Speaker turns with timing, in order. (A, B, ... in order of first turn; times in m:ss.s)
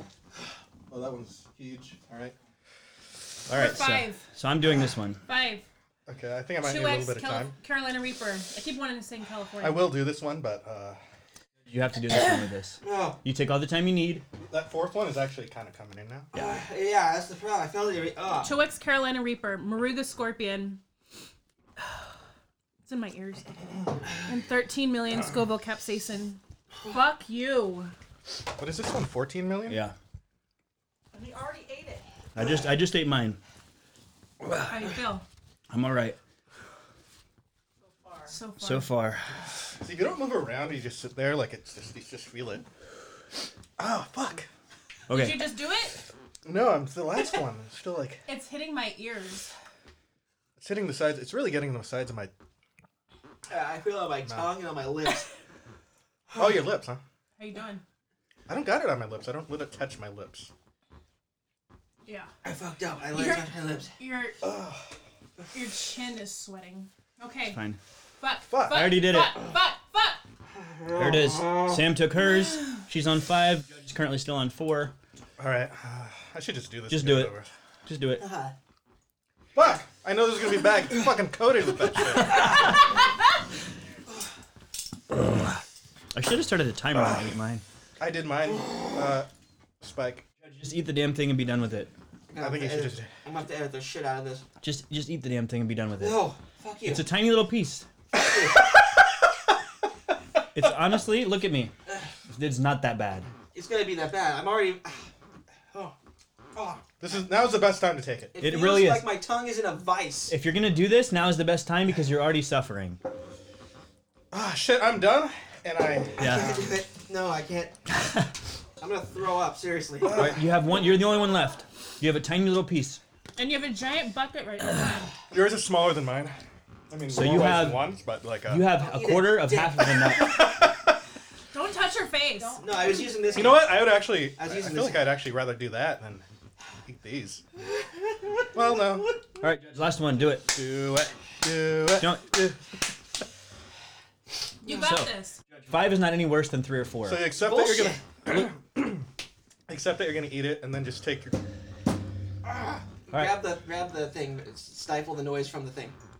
0:00.9-0:02.4 A
0:03.5-0:05.2 B
0:03.5-0:04.3 C
0:05.2-0:05.6 C
0:06.1-0:07.5 A
0:06.6-0:09.9 C
0:09.6-0:11.0 A
0:11.7-0:14.2 B
0:12.8-0:13.2 D
0:14.4-0:16.3 A
0:16.3-0:18.5 D
0:18.4-0:20.8 C
0:22.8-0:23.6 C
0:24.1-0:27.9 C
0:28.6-0:29.8 A
0:29.6-0:30.0 B
0:31.1-0:32.1 E
0:32.3-0:33.4 B
0:34.4-0:34.7 B
0:34.6-0:35.2 C
0:35.7-0:36.2 B
0:37.8-0:38.4 E
0:38.3-0:38.9 C
0:38.6-0:39.3 B
0:39.8-0:42.6 A
0:43.8-0:44.5 A
0:45.1-0:45.6 B
0:45.1-0:46.0 C
0:46.4-0:48.2 A
0:48.3-0:49.5 C
0:50.6-0:52.3 A
0:53.5-0:55.3 D
0:54.2-0:54.5 A
0:56.4-0:57.0 A
0:57.4-0:57.8 C
0:58.5-1:00.5 A
1:02.4-1:03.9 D
1:03.1-1:04.4 C
1:04.4-1:04.8 A
1:05.5-1:07.6 C
1:07.5-1:07.8 B
1:08.2-1:10.2 C
1:08.5-1:08.9 A
1:08.7-1:09.4 B
1:10.5-1:11.9 D
1:10.9-1:14.9 B
1:15.4-1:17.5 A
1:16.9-1:17.3 B
1:17.8-1:18.2 B
1:18.2-1:18.5 D
1:19.5-1:22.6 A
1:25.1-1:25.6 B
1:26.1-1:27.6 B
1:28.0-1:29.3 A
1:28.5-1:29.0 D
1:29.8-1:30.2 A
1:30.4-1:31.9 B
1:32.3-1:34.4 D
1:32.4-1:33.1 A
1:34.6-1:36.2 B
1:36.0-1:37.0 D
1:36.8-1:37.8 B
1:38.1-1:38.6 D
1:40.5-1:41.7 B
1:42.3-1:43.3 B
1:43.5-1:45.0 D
1:46.5-1:46.9 D
1:47.0-1:48.3 A
1:48.3-1:50.3 D
1:48.4-1:49.2 B
1:50.3-1:53.0 B
1:54.3-1:56.8 A
1:56.2-1:56.5 B
1:56.2-1:57.8 D
1:58.8-2:00.4 D
2:00.1-2:03.0 B
2:00.1-2:00.4 A
2:03.4-2:05.1 C
2:05.3-2:06.4 A
2:06.9-2:08.7 A
2:07.1-2:07.9 B
2:08.5-2:10.5 B
2:08.7-2:10.1 D
2:10.1-2:10.9 A
2:11.5-2:12.6 C
2:12.3-2:13.8 E
2:12.6-2:15.1 D
2:13.3-2:16.2 A
2:16.8-2:17.4 A
2:17.8-2:19.2 D
2:18.5-2:19.1 A
2:19.4-2:20.5 B
2:20.5-2:22.4 A
2:22.0-2:22.6 B
2:24.6-2:25.4 C
2:24.6-2:27.3 B
2:27.0-2:29.1 A
2:27.4-2:28.0 D
2:29.7-2:31.4 A
2:32.5-2:36.0 D
2:33.1-2:33.4 B